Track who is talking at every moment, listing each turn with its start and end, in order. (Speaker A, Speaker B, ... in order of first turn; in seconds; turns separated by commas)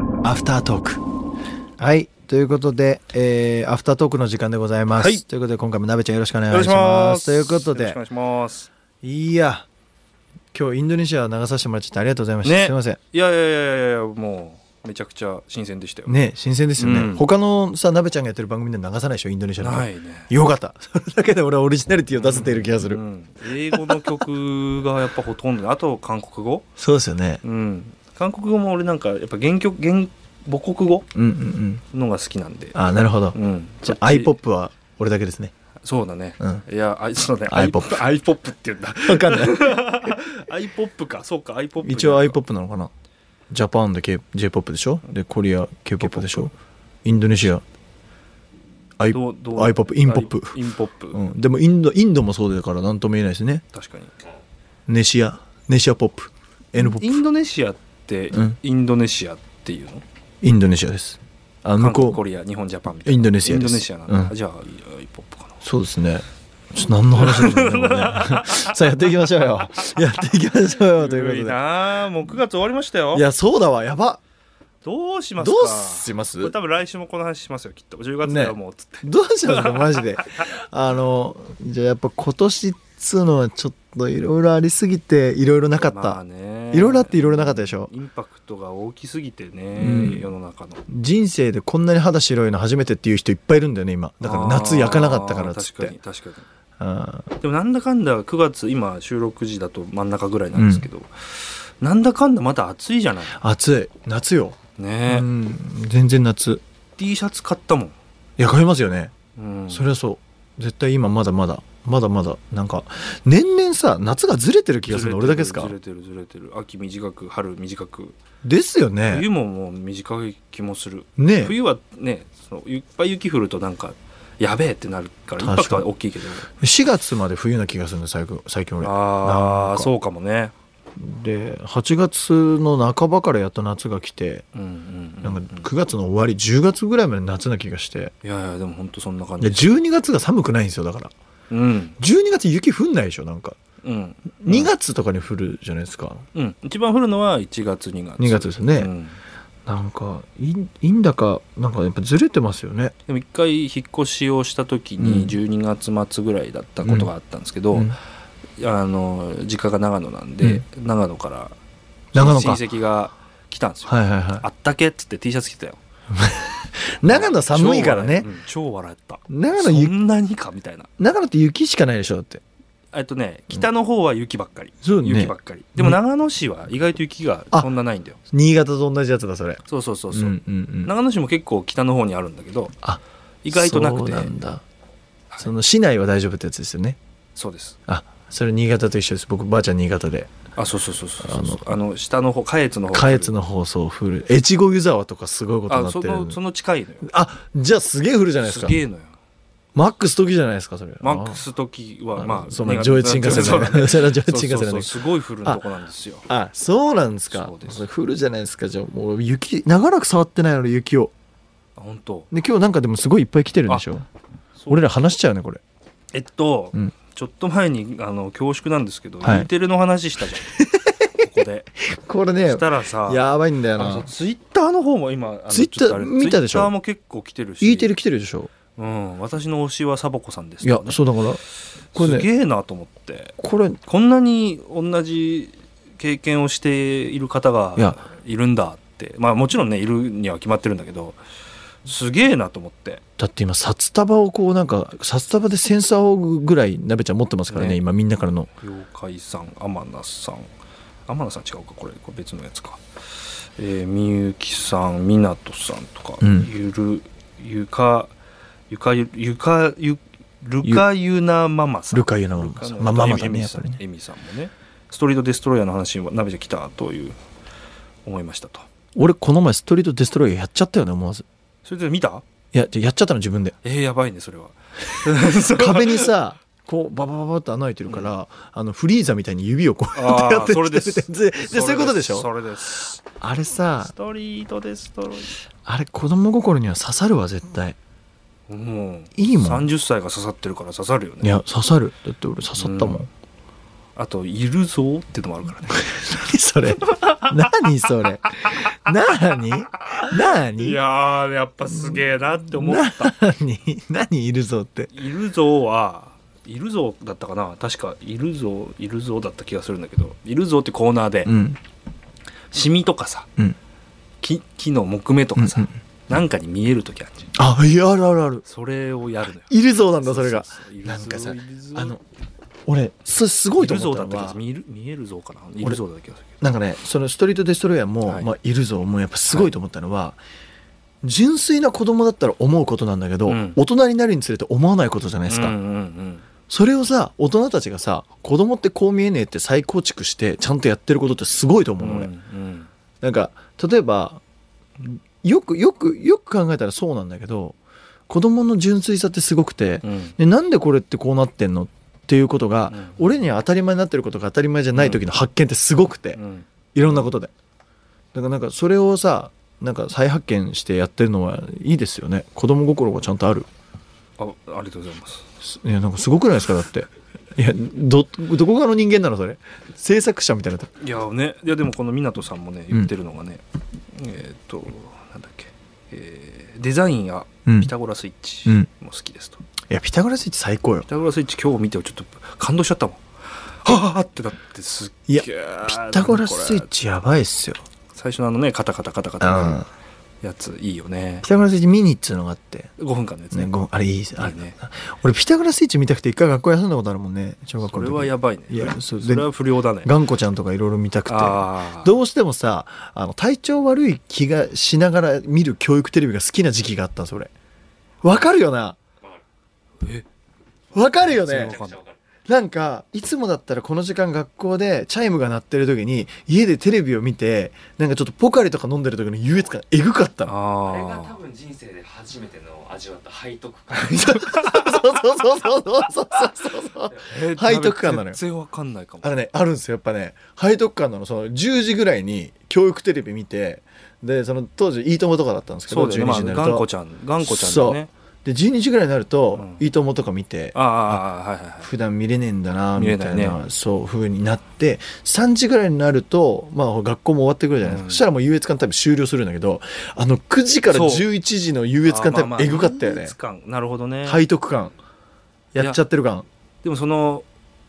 Speaker A: 0.2-1.0, Speaker A: 1.8-8.0, Speaker B: 5.0-5.2, Speaker B: 6.5-8.7, Speaker A: 9.0-9.7, Speaker A: 10.5-13.0, Speaker B: 12.4-16.2, Speaker A: 16.1-23.0, Speaker B: 16.8-17.2, Speaker B: 19.6-20.3, Speaker B: 22.1-26.6, Speaker A: 23.7-24.2, Speaker A: 26.8-27.4, Speaker B: 27.4-31.1, Speaker A: 31.1-31.8, Speaker B: 31.9-32.8, Speaker A: 32.7-35.5, Speaker B: 33.3-34.3, Speaker B: 35.8-42.4, Speaker A: 37.5-38.1, Speaker A: 39.0-40.4, Speaker A: 41.8-42.9, Speaker A: 43.5-46.5, Speaker B: 46.0-46.5, Speaker A: 47.0-47.6, Speaker A: 49.0-50.6, Speaker B: 49.1-51.2, Speaker A: 51.1-53.6, Speaker B: 53.7-54.1, Speaker A: 54.9-57.2, Speaker B: 56.8-60.0, Speaker A: 58.3-58.6, Speaker A: 60.4-62.2, Speaker B: 61.8-65.6, Speaker A: 63.0-64.3, Speaker A: 65.6-71.6, Speaker B: 67.2-68.8, Speaker B: 70.8-73.2, Speaker A: 73.1-74.2, Speaker B: 74.8-80.4, Speaker A: 75.4-76.5, Speaker A: 78.2-86.2, Speaker B: 85.8-90.8, Speaker A: 86.7-87.9, Speaker A: 89.8-90.3, Speaker A: 90.9-96.0, Speaker B: 94.2-96.5, Speaker A: 96.8-97.3, Speaker B: 97.4-103.4, Speaker A: 100.5-100.9, Speaker A: 103.3-106.6, Speaker B: 104.8-105.3, Speaker B: 107.0-108.0, Speaker A: 108.4-109.1, Speaker B: 109.4-109.9, Speaker A: 109.7-115.7, Speaker B: 114.9-118.2, Speaker A: 118.4-119.3, Speaker B: 119.1-126.5, Speaker A: 121.2-121.5, Speaker A: 125.4-125.9, Speaker A: 126.6-129.9, Speaker B: 128.8-130.5, Speaker A: 131.0-134.4, Speaker B: 134.5-135.7, Speaker A: 135.2-138.1, Speaker B: 138.2-139.7, Speaker A: 139.4-141.1, Speaker B: 141.5-142.0, Speaker A: 142.0-143.6, Speaker B: 143.8-144.7, Speaker A: 144.4-146.2, Speaker B: 146.3-149.2, Speaker A: 148.2-148.9, Speaker A: 149.7-152.9, Speaker B: 153.1-158.0, Speaker A: 155.0-155.4, Speaker A: 156.8-157.1, Speaker B: 158.6-161.6, Speaker A: 162.1-162.6, Speaker B: 162.1-165.8, Speaker A: 163.9-164.4, Speaker A: 166.1-168.3, Speaker B: 167.1-170.9, Speaker A: 169.3-169.9, Speaker A: 171.0-172.4, Speaker B: 172.9-178.2, Speaker A: 174.8-176.0, Speaker A: 178.3-180.9, Speaker B: 179.7-182.8, Speaker A: 182.8-184.6, Speaker B: 183.4-184.3, Speaker A: 185.4-187.0, Speaker B: 187.3-187.8, Speaker A: 187.9-190.3, Speaker B: 190.6-193.3, Speaker A: 191.2-191.7, Speaker A: 192.9-196.4, Speaker B: 195.7-197.1, Speaker A: 197.0-198.8, Speaker B: 198.4-199.2, Speaker A: 199.8-201.4, Speaker B: 201.0-206.2, Speaker A: 202.2-205.7, Speaker A: 206.3-211.1, Speaker B: 207.3-207.8, Speaker B: 211.8-212.3, Speaker A: 212.3-214.1, Speaker B: 214.6-215.0, Speaker A: 214.7-215.6, Speaker B: 216.1-220.5, Speaker A: 219.2-219.5, Speaker A: 220.4-221.2, Speaker B: 221.1-221.7, Speaker A: 221.8-224.1, Speaker B: 222.4-227.9, Speaker A: 225.5-226.7, Speaker A: 227.6-228.5, Speaker B: 228.8-231.1, Speaker A: 230.6-231.4, Speaker B: 231.9-241.2, Speaker A: 231.9-232.3, Speaker A: 233.4-233.8, Speaker B: 241.8-243.0, Speaker A: 243.2-248.5, Speaker B: 247.5-247.8, Speaker B: 248.6-250.5, Speaker B: 251.1-258.1, Speaker A: 256.2-256.5, Speaker B: 258.7-267.2, Speaker A: 261.9-263.8, Speaker B: 268.1-268.7, Speaker A: 269.0-271.3, Speaker B: 271.6-272.2, Speaker A: 272.5-273.6, Speaker B: 273.6-276.1, Speaker A: 275.2-283.9, Speaker B: 277.9-278.1, Speaker B: 279.9-283.0, Speaker B: 283.8-285.4, Speaker A: 285.7-287.8, Speaker B: 288.5-291.4, Speaker A: 289.1-289.7, Speaker A: 291.2-293.1, Speaker B: 292.6-293.0, Speaker B: 294.0-295.9, Speaker A: 295.7-300.8, Speaker B: 297.0-297.5, Speaker B: 299.9-303.2, Speaker A: 301.7-304.9, Speaker B: 304.9-311.3, Speaker A: 311.3-311.6, Speaker B: 312.5-313.3, Speaker B: 314.2-317.3, Speaker A: 315.4-315.7, Speaker A: 317.4-318.4, Speaker B: 318.4-322.0, Speaker A: 319.4-322.0, Speaker A: 322.7-324.4, Speaker B: 323.6-326.3, Speaker A: 326.4-330.2, Speaker A: 331.0-335.6, Speaker B: 333.3-333.6, Speaker B: 335.3-336.2, Speaker A: 336.5-342.1, Speaker B: 341.8-342.7, Speaker A: 343.0-344.2, Speaker A: 344.8-347.6, Speaker A: 348.1-356.2, Speaker B: 349.8-350.2, Speaker B: 352.7-353.0, Speaker B: 354.8-355.0, Speaker B: 356.1-357.1, Speaker A: 356.8-357.3, Speaker A: 358.1-363.5, Speaker B: 364.2-365.2, Speaker A: 365.4-370.7, Speaker B: 370.8-379.4, Speaker A: 377.5-377.7, Speaker A: 379.7-380.9, Speaker B: 380.9-383.0, Speaker B: 383.6-386.7, Speaker A: 385.1-387.6, Speaker B: 387.9-389.6, Speaker A: 389.2-389.7, Speaker B: 390.2-391.3, Speaker A: 391.2-392.7, Speaker B: 392.8-393.6, Speaker A: 393.3-399.3, Speaker B: 394.2-394.6, Speaker B: 397.6-399.9, Speaker A: 399.8-407.3, Speaker B: 401.1-401.9, Speaker A: 408.0-408.8, Speaker A: 410.7-411.6, Speaker B: 411.0-411.9, Speaker A: 412.3-420.3, Speaker B: 420.3-421.3, Speaker C: 420.9-423.7, Speaker A: 423.7-428.2, Speaker B: 424.0-424.6, Speaker B: 427.0-429.2, Speaker A: 429.0-436.7, Speaker B: 435.7-437.9, Speaker A: 437.2-441.0, Speaker B: 439.4-439.6, Speaker B: 440.5-441.7, Speaker A: 441.6-453.1, Speaker B: 442.8-443.4, Speaker B: 447.6-448.1, Speaker B: 450.7-451.1, Speaker B: 451.8-454.2, Speaker A: 454.1-454.7, Speaker A: 455.5-456.3, Speaker B: 456.6-457.2